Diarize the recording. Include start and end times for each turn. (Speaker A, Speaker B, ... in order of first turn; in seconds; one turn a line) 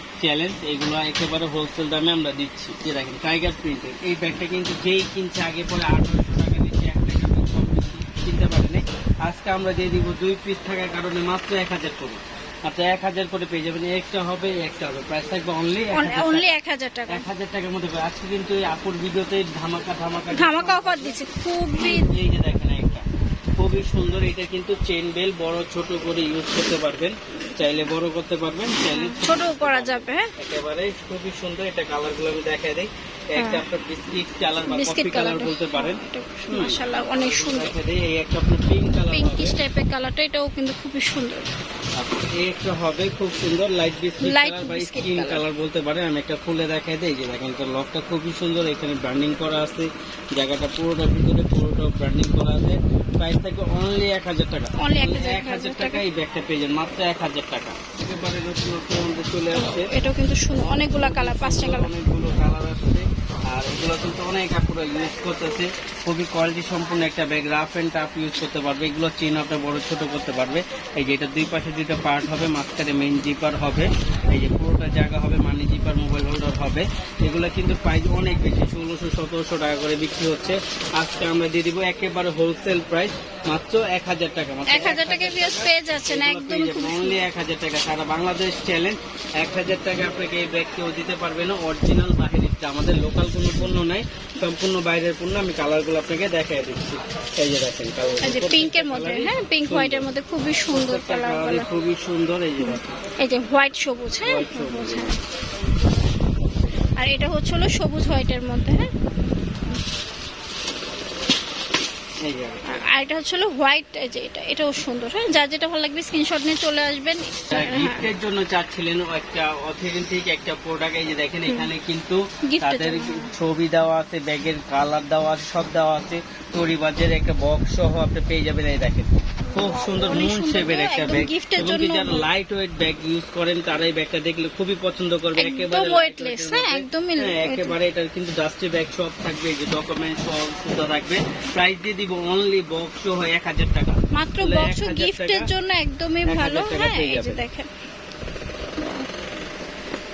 Speaker A: 0.2-16.5
Speaker B: 15.9-17.2
Speaker A: 17.1-21.2
Speaker B: 20.4-22.1
Speaker A: 21.8-23.1
Speaker A: 23.6-39.5
Speaker B: 28.9-30.3
Speaker B: 33.4-33.6
Speaker B: 34.7-37.7
Speaker B: 39.1-41.5
Speaker A: 42.0-59.9
Speaker B: 44.2-45.4
Speaker B: 54.8-56.0
Speaker B: 59.5-61.9
Speaker A: 60.8-100.1
Speaker B: 84.7-87.2
Speaker B: 98.2-101.7
Speaker A: 100.7-102.9
Speaker B: 102.6-105.2
Speaker A: 104.2-105.1
Speaker B: 107.0-108.9
Speaker A: 112.2-112.8
Speaker B: 112.7-118.1
Speaker A: 117.5-145.5
Speaker B: 122.5-123.3
Speaker B: 129.6-132.3
Speaker B: 135.4-137.8
Speaker B: 144.1-147.7
Speaker A: 146.3-147.4